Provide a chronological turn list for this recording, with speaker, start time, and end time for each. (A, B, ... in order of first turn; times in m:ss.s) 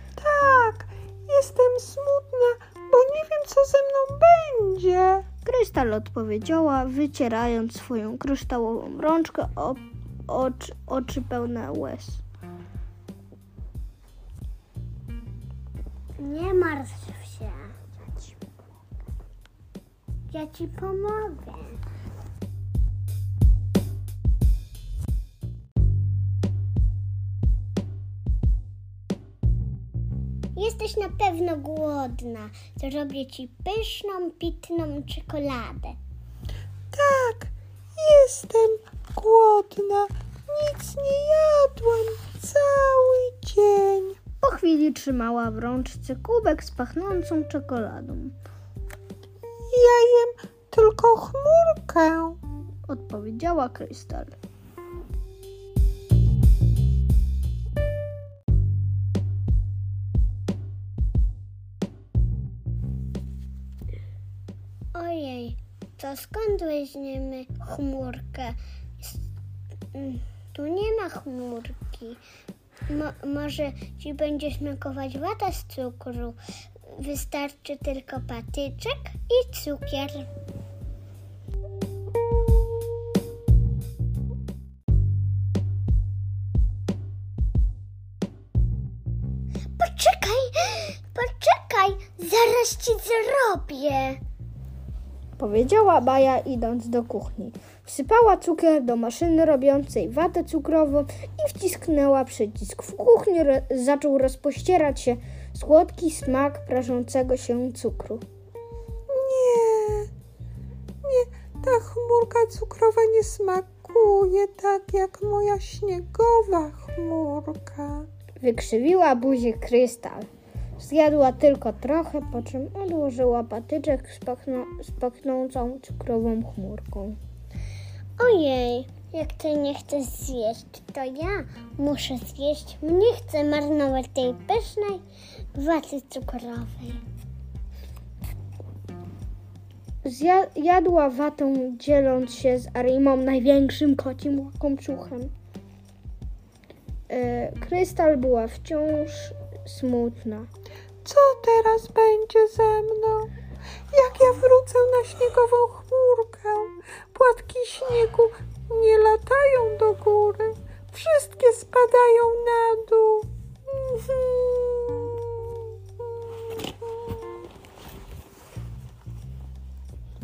0:00.2-0:05.2 A
0:05.4-0:12.2 B
0:16.2-0:17.7 C
0:20.3-0:21.8 C
0:30.6-0:36.0 C
0:36.9-0:44.2 A
0:44.4-0:48.4 B
0:49.7-0:52.4 A
0:52.9-0:54.4 B
1:04.9-1:09.2 C
1:09.9-1:12.2 C
1:12.9-1:20.3 C
1:29.8-1:34.2 C
1:35.4-1:48.2 B
1:49.1-1:50.1 A
1:51.0-1:58.1 A
1:58.4-2:00.3 B
2:00.8-2:07.2 B
2:08.2-2:15.0 C
2:15.5-2:17.0 C
2:20.0-2:25.3 B
2:27.1-2:30.5 B
2:31.0-2:33.3 A
2:33.9-2:46.9 A